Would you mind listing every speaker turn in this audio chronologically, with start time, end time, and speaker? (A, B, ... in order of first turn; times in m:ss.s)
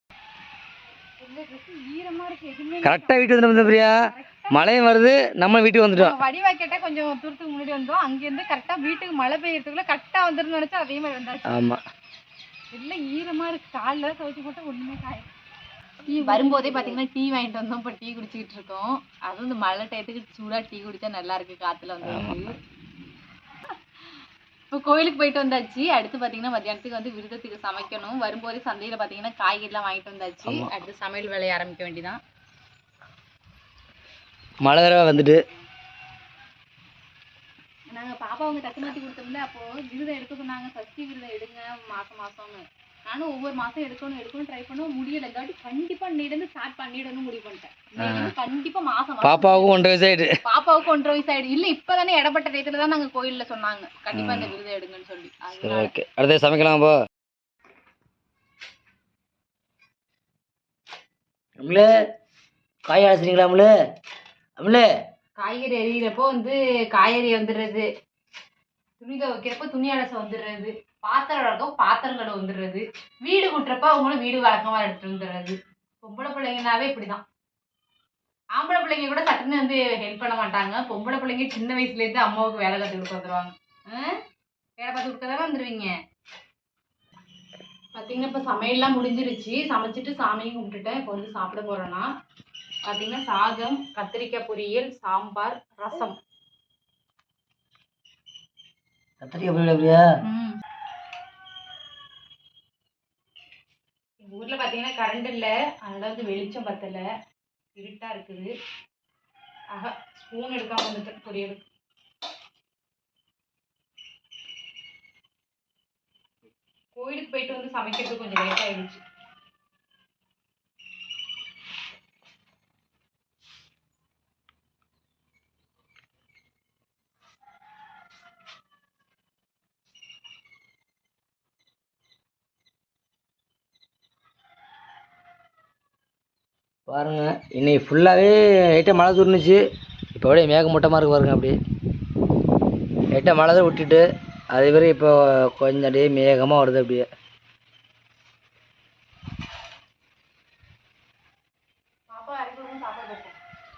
0:01.2-0:03.2 A
0:02.8-0:04.0 B
0:04.0-0:04.6 A
0:04.5-0:06.2 B
0:06.0-0:11.5 A
0:11.5-0:11.8 B
0:12.7-0:15.3 A
0:16.1-0:22.6 A
0:22.0-0:22.4 B
0:24.7-0:32.2 A
0:34.6-0:35.4 B
0:37.9-0:49.8 A
0:48.0-0:48.3 B
0:49.2-0:50.4 B
0:50.4-0:55.9 A
0:54.1-0:54.5 B
0:55.6-0:57.0 B
1:01.6-1:01.9 B
1:02.9-1:03.7 B
1:04.6-1:04.9 B
1:05.4-1:07.9 A
1:09.0-1:17.2 A
1:18.6-1:24.2 A
1:24.8-1:25.9 A
1:28.0-1:32.1 A
1:32.8-1:36.2 A
1:39.2-1:40.0 B
1:40.2-1:40.6 A
1:44.2-1:47.1 A
1:47.8-1:48.5 A
1:49.7-1:51.6 A
1:56.9-1:59.0 A
2:16.9-2:19.6 B
2:20.2-2:21.6 B
2:23.1-2:27.0 B
2:32.1-2:33.4 A